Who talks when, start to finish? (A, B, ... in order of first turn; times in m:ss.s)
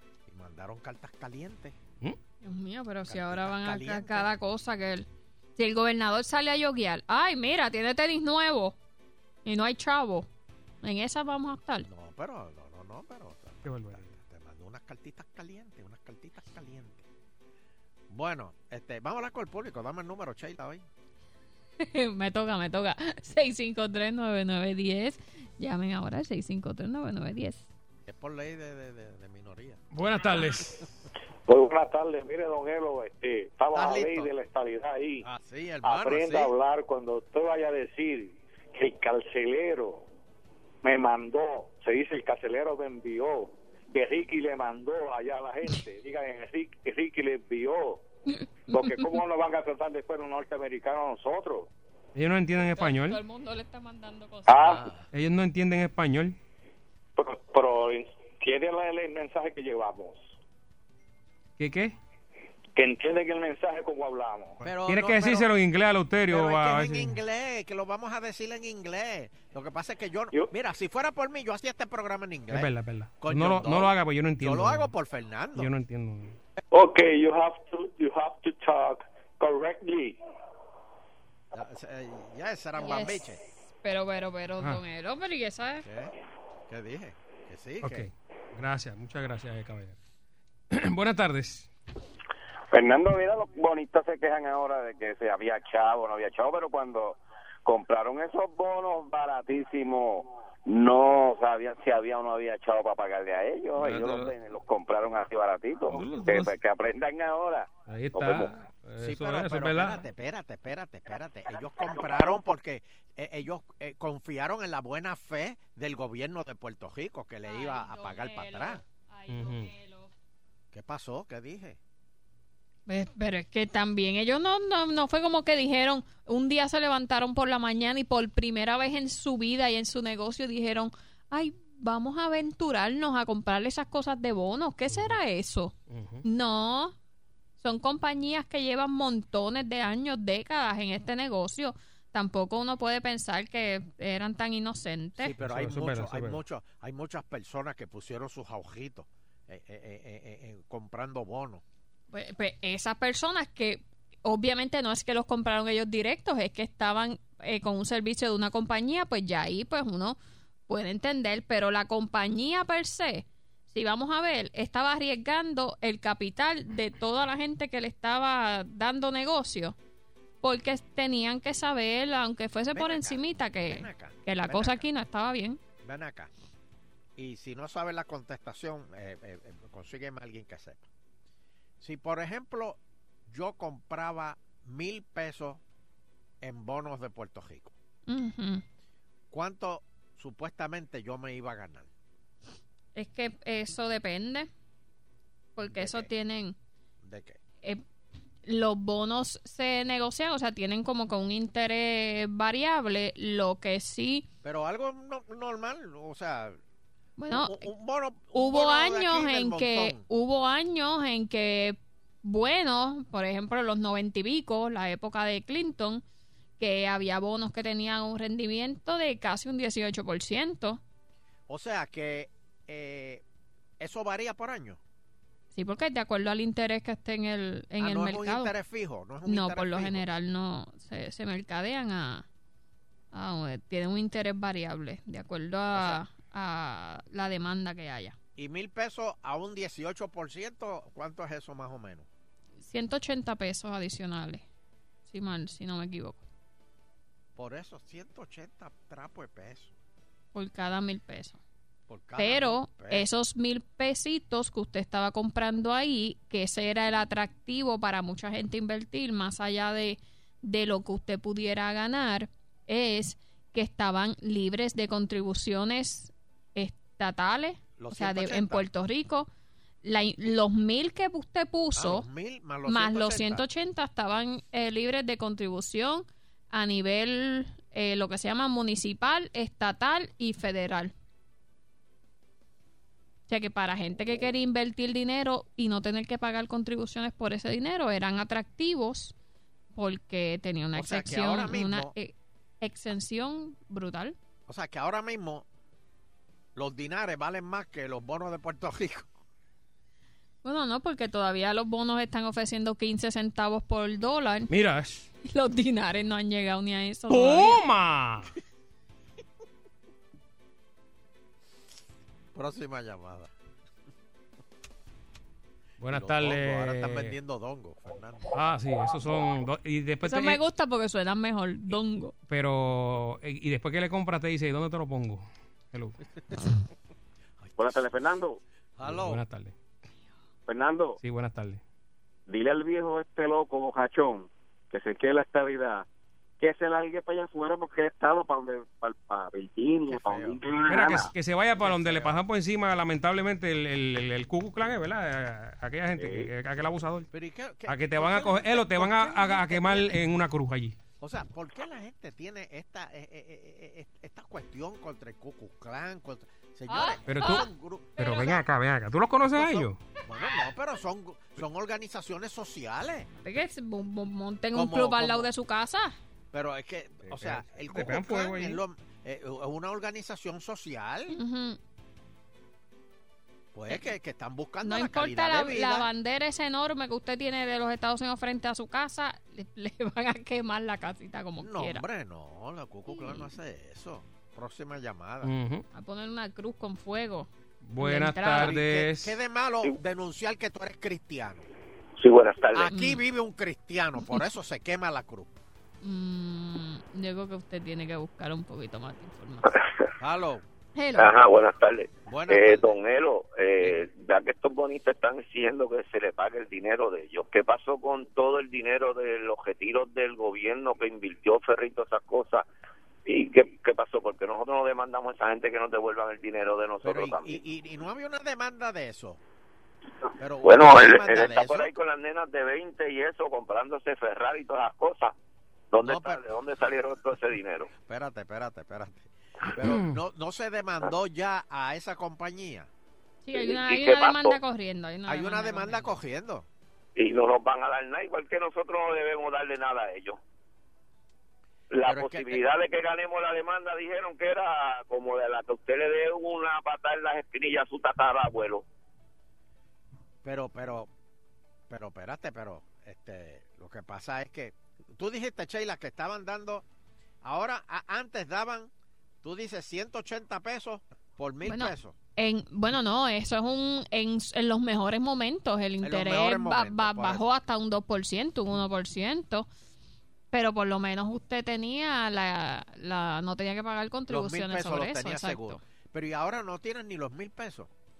0:00.3-0:01.8 A
0:02.4-0:08.8 B
0:03.0-0:04.3 A
0:09.4-0:10.3 B
0:10.8-0:11.9 B
0:11.8-0:17.0 A
0:13.6-0:14.1 C
0:18.1-0:20.8 A
0:21.8-0:27.7 B
0:28.1-0:29.8 A
0:29.9-0:30.9 C
0:31.5-0:35.2 D
0:33.7-0:34.3 A
0:35.2-0:36.5 A
0:35.8-0:40.0 D
0:40.8-0:48.0 D
0:48.4-0:49.1 B
0:48.7-0:51.7 D
0:52.1-0:53.2 C
0:52.6-0:54.7 B
0:54.5-0:54.8 D
0:54.7-0:55.0 A
0:55.1-0:56.4 C
0:57.2-1:00.3 D
1:01.6-1:01.9 C
1:02.7-1:04.6 D
1:04.6-1:05.5 A
1:04.6-1:07.2 C
1:06.3-1:12.7 A
1:12.5-1:14.9 C
1:13.2-1:15.7 A
1:15.6-1:16.4 C
1:16.7-1:20.2 D
1:21.5-1:23.4 A
1:22.8-1:25.8 B
1:25.8-1:26.1 A
1:26.7-1:28.0 A
1:27.8-1:30.0 C
1:30.7-1:31.7 C
1:32.7-1:48.5 E
1:43.8-1:44.3 C
1:45.9-1:46.5 C
1:47.9-1:50.0 C
1:49.0-1:58.8 A
1:57.4-2:00.1 B
1:59.3-1:59.7 C
2:00.7-2:01.8 A
2:02.9-2:16.9 B
2:14.9-2:15.2 C
2:15.9-2:16.2 C
2:17.6-2:25.4 B
2:25.2-2:31.6 A
2:25.4-2:26.4 C
2:32.1-2:49.8 B
2:50.4-2:55.6 B
2:52.7-2:54.9 A
2:55.8-2:56.3 A
2:57.2-3:00.9 A
3:01.8-3:05.6 A
3:06.4-3:07.7 A
3:08.1-3:08.6 B
3:09.3-3:11.9 A
3:12.9-3:14.5 B
3:15.6-3:16.6 B
3:15.7-3:16.1 A
3:17.0-3:17.4 A
3:18.4-3:24.3 B
3:24.4-3:26.6 A
3:27.2-3:27.6 B
3:27.3-3:30.0 A
3:28.3-3:36.0 B
3:36.6-3:40.8 B
3:41.5-3:43.2 A
3:43.8-3:44.8 A
3:45.5-3:48.5 B
3:47.8-3:50.0 A
3:49.2-3:52.2 B
3:53.1-3:58.2 B
3:55.7-3:56.0 A
3:58.4-4:02.1 A
4:02.6-4:04.4 B
4:05.1-4:06.2 B
4:07.4-4:09.7 A
4:10.3-4:11.4 B
4:11.9-4:13.1 A
4:12.2-4:29.3 B
4:27.8-4:28.7 A
4:29.8-4:32.1 B
4:31.8-4:33.4 A
4:32.6-4:40.9 B
4:43.3-4:49.1 B
4:49.7-4:54.2 B
4:50.7-4:51.9 A
4:54.5-4:55.4 A
4:56.6-4:59.1 A
5:00.4-5:04.5 B
5:04.5-5:05.1 C
5:05.2-5:07.6 B
5:07.1-5:08.3 C
5:12.3-5:13.3 A
5:15.8-5:17.1 C
5:15.9-5:18.3 A
5:18.3-5:20.4 C
5:20.0-5:22.1 B
5:22.3-5:26.0 C
5:27.6-5:28.4 E
5:28.8-5:29.2 A
5:28.8-5:29.5 C
5:30.5-5:31.0 E
5:31.0-5:31.6 C
5:32.3-5:35.8 E
5:36.4-5:41.1 E
5:39.9-5:40.4 A
5:40.7-5:47.1 C
5:41.6-5:42.2 A
5:45.9-5:46.3 E
5:47.1-5:50.0 A
5:47.7-5:50.8 C
5:51.0-5:58.3 A
5:56.7-5:58.4 B
5:57.0-5:59.8 C
5:59.3-6:03.1 A
6:03.2-6:06.0 B
6:04.5-6:05.3 A
6:06.3-6:11.2 A
6:07.1-6:08.6 C
6:11.1-6:11.6 B
6:13.5-6:15.9 A
6:14.6-6:21.8 B
6:21.4-6:25.3 A
6:22.9-6:23.3 B
6:25.2-6:25.6 C
6:25.7-6:28.6 B
6:27.6-6:29.2 C
6:28.3-6:31.4 A
6:32.0-6:32.7 F
6:32.5-6:35.4 A
6:32.7-6:33.0 B
6:35.8-6:39.5 B
6:40.0-6:40.4 A
6:40.8-6:41.2 B
6:41.0-6:52.4 F
6:42.0-6:42.8 A
6:43.6-6:43.9 A
6:53.0-6:57.4 F
6:56.8-6:59.2 A
7:00.2-7:01.7 A
7:00.4-7:05.1 F
7:05.7-7:07.7 F
7:05.8-7:06.2 A
7:07.8-7:12.7 A
7:09.6-7:10.0 C
7:13.2-7:15.9 B
7:13.3-7:14.4 F
7:15.1-7:16.5 A
7:17.0-7:20.2 F
7:21.7-7:28.6 F
7:21.8-7:22.4 A
7:30.2-7:30.9 A
7:31.7-7:36.6 A
7:37.2-7:38.7 A
7:39.2-7:41.9 A
7:41.4-7:49.5 B
7:45.8-7:47.2 A
7:50.3-7:55.6 B
7:54.1-7:57.7 A